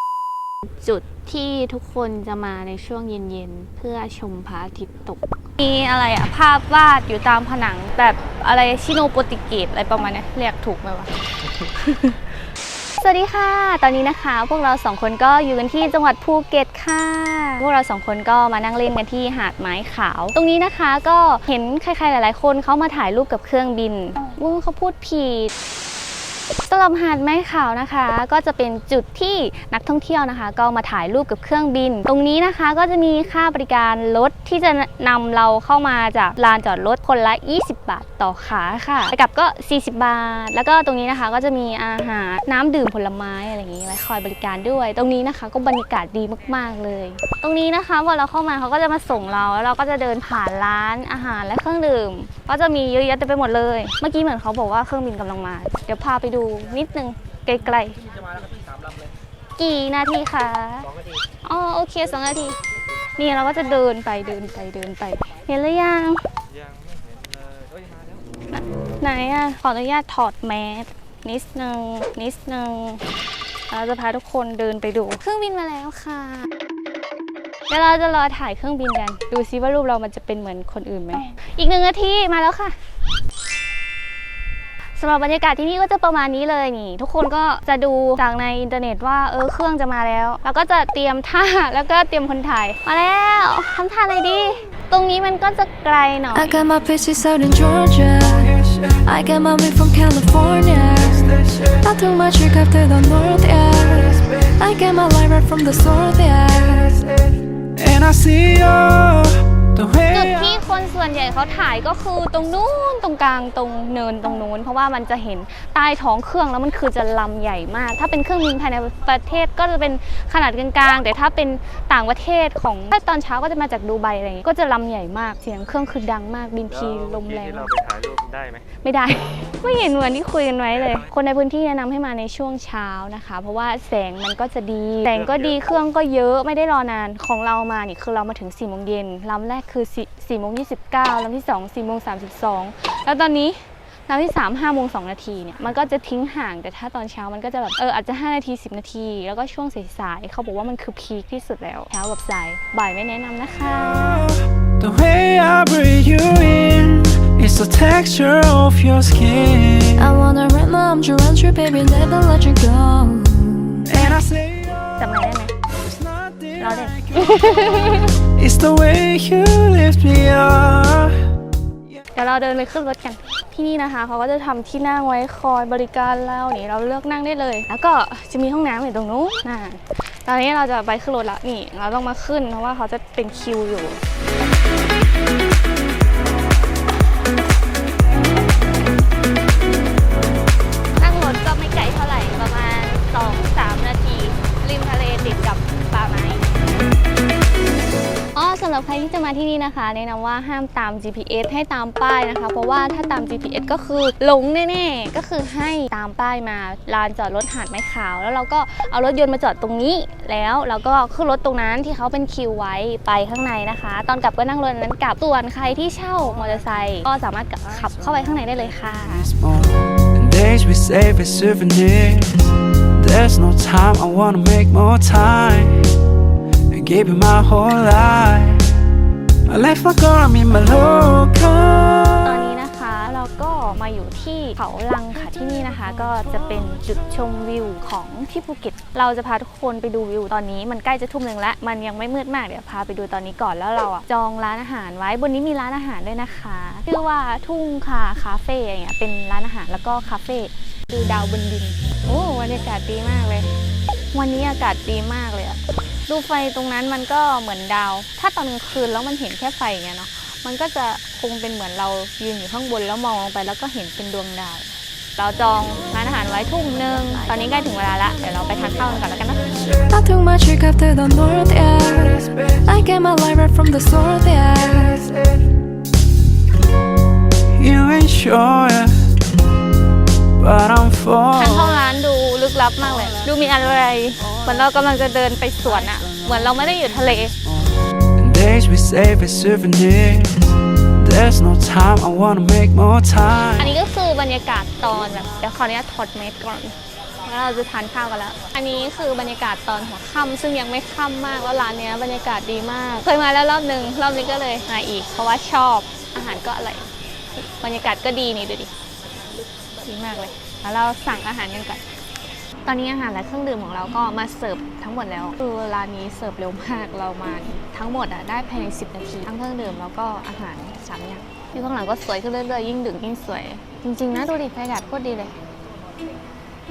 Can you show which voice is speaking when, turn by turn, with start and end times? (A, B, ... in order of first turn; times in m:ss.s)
0:00.6-0:12.2 A
0:13.0-0:25.5 A
0:26.7-0:58.0 A
0:59.6-1:00.9 A
1:01.4-1:02.6 A
1:03.2-1:06.2 A
1:08.5-1:13.1 A
1:13.7-1:16.5 A
1:17.7-1:22.8 A
1:25.0-1:36.6 A
1:36.3-1:47.0 B
1:38.3-1:39.0 C
1:41.1-1:41.8 C
1:47.0-1:50.6 C
1:50.1-2:07.7 A
2:06.7-2:08.7 D
2:08.8-2:34.3 A
2:15.1-2:15.6 D
2:34.8-2:40.1 C
2:40.0-2:43.9 B
2:43.9-2:45.1 C
2:43.9-2:44.2 A
2:44.8-2:45.5 A
2:45.8-2:51.2 C
2:46.6-2:48.2 A
2:52.2-3:04.0 A
3:11.0-3:16.8 A
3:18.3-3:39.3 A
3:39.3-3:42.4 C
3:43.0-3:45.7 C
3:46.7-3:48.6 C
3:49.5-3:52.4 C
3:52.2-4:13.5 A
4:14.1-4:29.8 A
4:29.9-4:35.3 B
4:32.2-4:32.6 C
4:37.6-4:38.9 C
4:40.4-4:41.9 C
4:41.3-4:47.3 A
4:44.2-4:44.7 C
4:45.8-4:46.2 C
4:48.2-4:50.4 C
4:51.0-4:53.7 C
4:53.6-5:08.7 A
5:09.8-5:11.8 A
5:12.6-5:25.4 A